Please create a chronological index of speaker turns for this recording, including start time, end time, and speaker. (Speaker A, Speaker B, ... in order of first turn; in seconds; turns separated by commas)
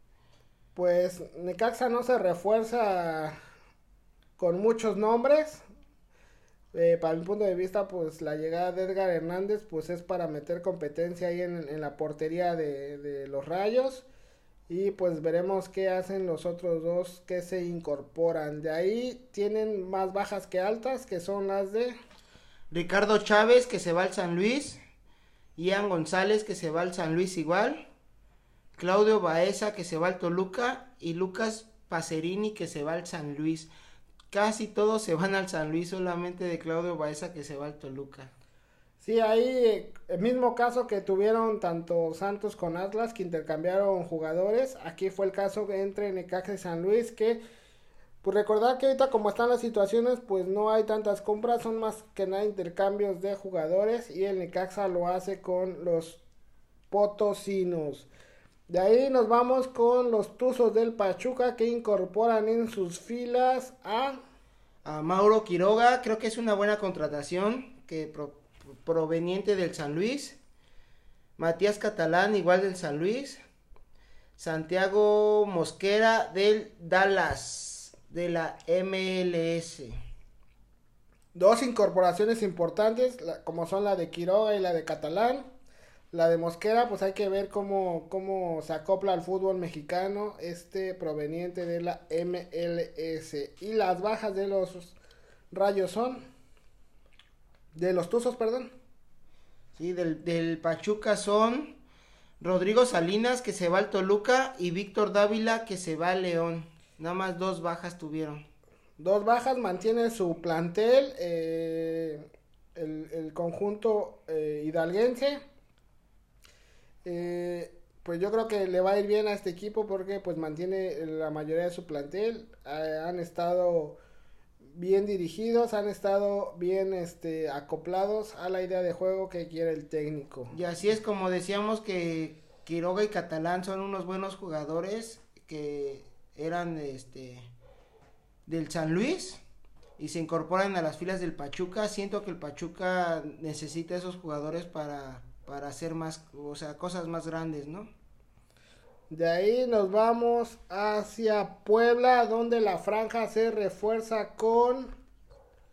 Speaker A: 0.8-3.4, Speaker A: 4.4-5.6, Speaker A: 6.7-14.1, Speaker A: 14.7-21.9, Speaker B: 22.7-24.8, Speaker B: 25.6-27.8, Speaker B: 28.8-33.7, Speaker B: 34.3-38.3, Speaker A: 39.0-47.4, Speaker A: 48.2-56.2, Speaker A: 56.9-58.1, Speaker A: 58.7-64.2, Speaker B: 64.8-70.4, Speaker B: 71.4-73.4, Speaker B: 74.4-80.0, Speaker A: 81.3-85.5, Speaker A: 86.1-95.0, Speaker A: 95.5-96.2, Speaker A: 97.7-98.7, Speaker B: 99.8-101.7, Speaker B: 102.4-108.5, Speaker A: 109.0-115.4, Speaker A: 117.0-124.0, Speaker A: 124.8-130.6, Speaker B: 130.5-137.5, Speaker B: 138.5-139.4, Speaker B: 140.0-147.9, Speaker A: 149.1-154.9